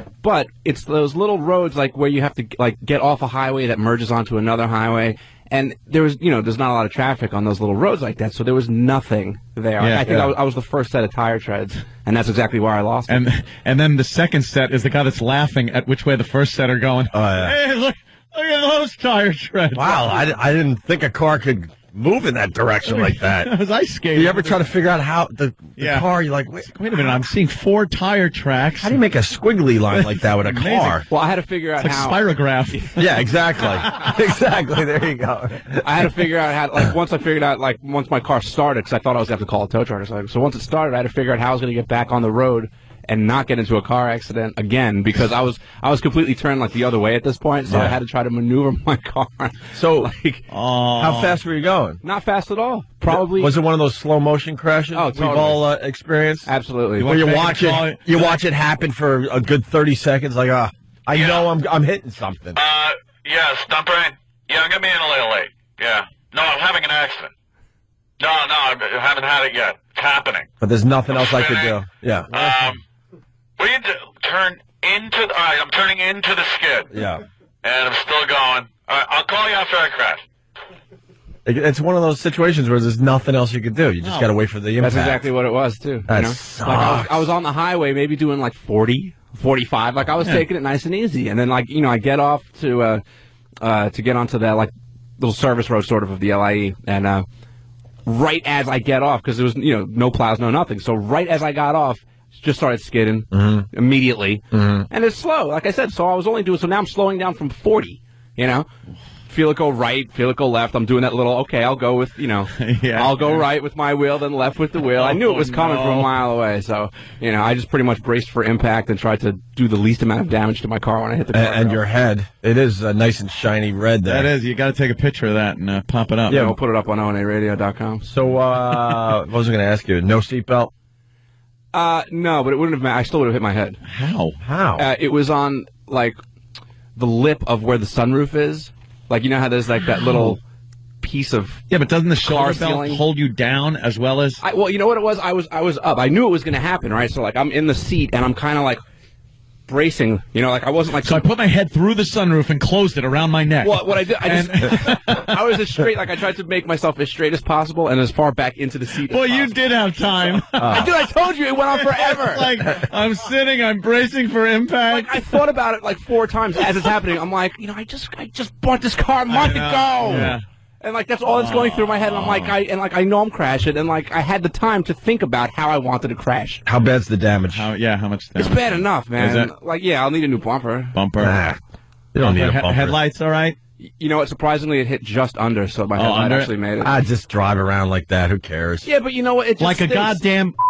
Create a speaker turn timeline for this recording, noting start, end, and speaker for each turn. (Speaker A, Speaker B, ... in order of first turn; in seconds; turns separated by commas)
Speaker A: 0.2-13.2, Speaker B: 9.8-10.1, Speaker B: 13.1-20.1, Speaker C: 17.1-17.6, Speaker C: 19.8-23.5, Speaker B: 22.9-24.7, Speaker C: 24.1-26.7, Speaker B: 25.8-26.1, Speaker B: 26.6-29.0, Speaker C: 28.8-31.1, Speaker B: 30.4-31.0, Speaker A: 31.1-33.0, Speaker B: 31.8-33.0, Speaker C: 33.0-36.0, Speaker A: 33.6-33.9, Speaker A: 35.8-50.4, Speaker C: 47.7-48.0, Speaker C: 49.7-50.1, Speaker B: 50.5-51.4, Speaker C: 51.0-52.0, Speaker A: 52.0-53.6, Speaker C: 53.1-56.5, Speaker A: 54.9-55.6, Speaker A: 56.5-57.2, Speaker B: 57.0-58.4, Speaker C: 57.0-62.6, Speaker D: 61.1-61.4, Speaker D: 62.6-67.3, Speaker D: 68.2-70.5, Speaker C: 70.6-72.5, Speaker D: 71.2-71.8, Speaker D: 72.3-72.8, Speaker D: 73.6-76.9, Speaker C: 76.9-77.2, Speaker D: 77.6-80.2, Speaker C: 81.5-85.3, Speaker B: 84.0-84.3, Speaker A: 84.8-93.0, Speaker C: 86.1-87.3, Speaker A: 93.6-97.2, Speaker A: 98.1-108.7, Speaker C: 103.3-103.7, Speaker C: 104.5-104.9, Speaker A: 109.3-121.8, Speaker B: 112.5-113.5, Speaker B: 115.0-116.1, Speaker C: 121.3-124.3, Speaker B: 124.0-126.5, Speaker C: 126.3-126.5, Speaker A: 126.3-128.1, Speaker C: 128.1-130.7, Speaker A: 131.7-133.8, Speaker B: 133.8-134.4, Speaker C: 134.4-134.9, Speaker A: 134.8-136.2, Speaker A: 137.0-140.4, Speaker A: 141.0-141.7, Speaker B: 141.7-144.4, Speaker A: 142.2-143.0, Speaker A: 144.4-148.8, Speaker A: 149.7-151.3, Speaker B: 151.0-155.4, Speaker A: 153.6-159.5, Speaker B: 159.1-160.9, Speaker A: 160.3-162.6, Speaker C: 160.6-160.9, Speaker B: 161.7-165.4, Speaker A: 164.9-176.6, Speaker B: 169.3-170.4, Speaker B: 171.3-172.5, Speaker C: 176.7-177.7, Speaker B: 177.5-179.5, Speaker A: 178.4-180.9, Speaker B: 180.9-181.4, Speaker C: 181.2-181.6, Speaker C: 182.1-183.0, Speaker B: 182.2-183.6, Speaker A: 184.0-186.9, Speaker B: 186.0-186.5, Speaker C: 186.8-188.9, Speaker A: 188.8-190.2, Speaker B: 189.6-190.6